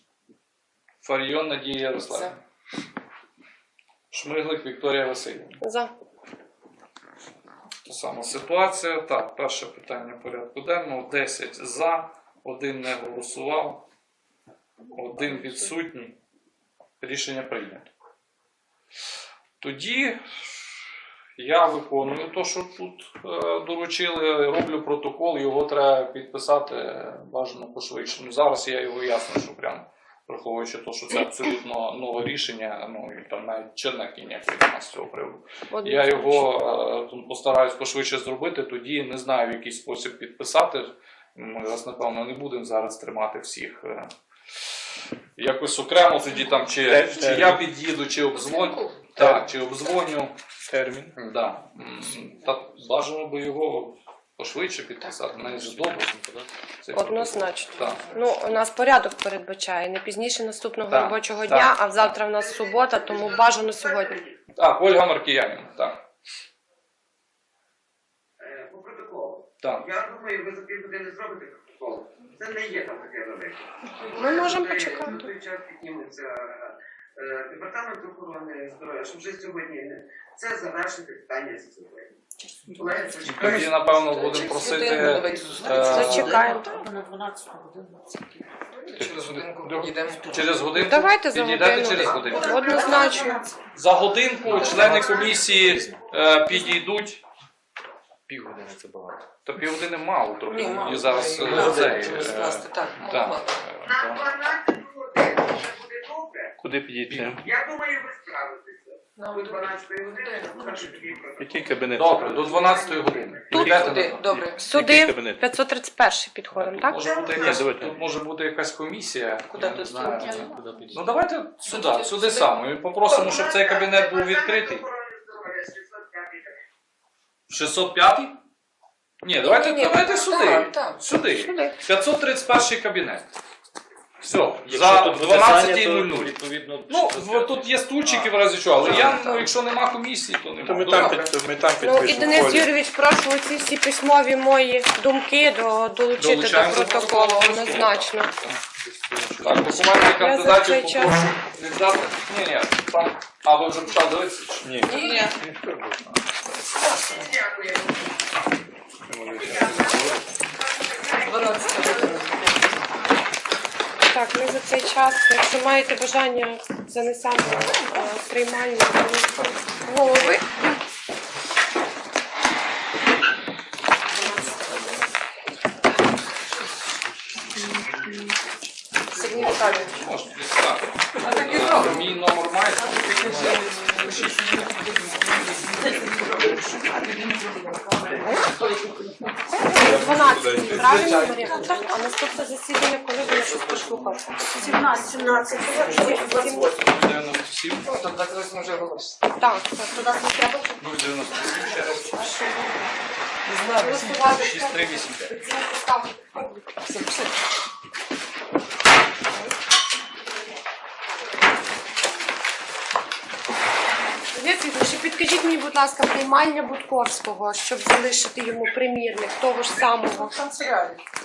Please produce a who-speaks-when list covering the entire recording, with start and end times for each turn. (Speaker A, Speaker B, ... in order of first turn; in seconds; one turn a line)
Speaker A: 1.0-2.4
Speaker A: 4.1-5.6
Speaker B: 5.6-5.9
Speaker A: 7.8-13.8
Speaker A: 14.9-16.1
Speaker A: 17.0-17.9
Speaker A: 19.6-20.2
Speaker A: 21.4-44.1
Speaker B: 35.7-36.5
Speaker A: 45.4-50.3
Speaker C: 46.8-47.6
Speaker D: 48.5-48.9
Speaker C: 49.2-49.5
Speaker C: 50.7-51.1
Speaker A: 51.1-56.1
Speaker E: 55.2-56.5
Speaker A: 56.8-58.0
Speaker B: 56.9-64.2
Speaker A: 60.9-62.2
Speaker F: 62.2-64.4
Speaker A: 64.5-66.0
Speaker F: 68.4-82.2
Speaker B: 74.1-75.3
Speaker F: 82.7-85.5
Speaker A: 83.2-86.4
Speaker D: 83.4-90.9
Speaker B: 85.8-86.8
Speaker A: 89.0-92.7
Speaker B: 90.8-93.4
Speaker D: 92.0-93.5
Speaker F: 92.2-93.4
Speaker A: 93.7-97.2
Speaker E: 94.4-96.0
Speaker D: 94.5-95.3
Speaker F: 94.9-95.9
Speaker E: 98.3-99.2
Speaker A: 99.4-104.3
Speaker D: 100.5-103.6
Speaker E: 101.5-102.1
Speaker F: 103.8-106.6
Speaker C: 106.6-107.4
Speaker F: 107.3-113.9
Speaker D: 109.2-111.2
Speaker C: 111.4-112.5
Speaker A: 111.9-114.2
Speaker D: 113.5-114.8
Speaker C: 113.5-115.4
Speaker B: 114.6-117.0
Speaker A: 116.5-124.8
Speaker F: 116.9-117.6
Speaker C: 117.3-117.9
Speaker D: 119.5-120.9
Speaker E: 119.6-121.1
Speaker D: 121.6-123.4
Speaker F: 123.1-126.6
Speaker A: 127.5-128.4
Speaker A: 129.2-133.2
Speaker D: 129.4-131.1
Speaker B: 131.3-131.7
Speaker A: 134.2-136.3
Speaker E: 134.6-139.5
Speaker A: 136.9-141.2
Speaker C: 138.8-139.3
Speaker C: 140.6-142.7
Speaker D: 140.9-141.2
Speaker B: 141.8-148.3
Speaker A: 146.2-148.6
Speaker C: 148.8-149.7
Speaker A: 149.4-154.7
Speaker B: 149.6-151.1
Speaker C: 154.6-156.0
Speaker D: 154.8-155.3
Speaker D: 156.8-157.3
Speaker F: 157.0-158.1
Speaker C: 159.1-160.2
Speaker F: 159.3-162.1
Speaker D: 161.2-162.5
Speaker B: 164.1-170.4
Speaker D: 174.3-174.7
Speaker D: 179.1-180.1
Speaker A: 179.3-184.4
Speaker D: 181.1-192.1
Speaker B: 189.7-196.7
Speaker C: 189.8-191.3
Speaker A: 193.3-193.8
Speaker D: 194.5-196.8
Speaker A: 196.0-197.9
Speaker D: 197.8-199.2
Speaker B: 199.4-200.0
Speaker D: 199.9-200.8
Speaker A: 200.8-202.6
Speaker D: 201.3-202.9
Speaker B: 202.1-202.6
Speaker D: 203.4-205.5
Speaker B: 203.8-206.6
Speaker A: 204.4-205.2
Speaker D: 206.8-207.4
Speaker B: 214.3-220.3
Speaker D: 219.7-221.0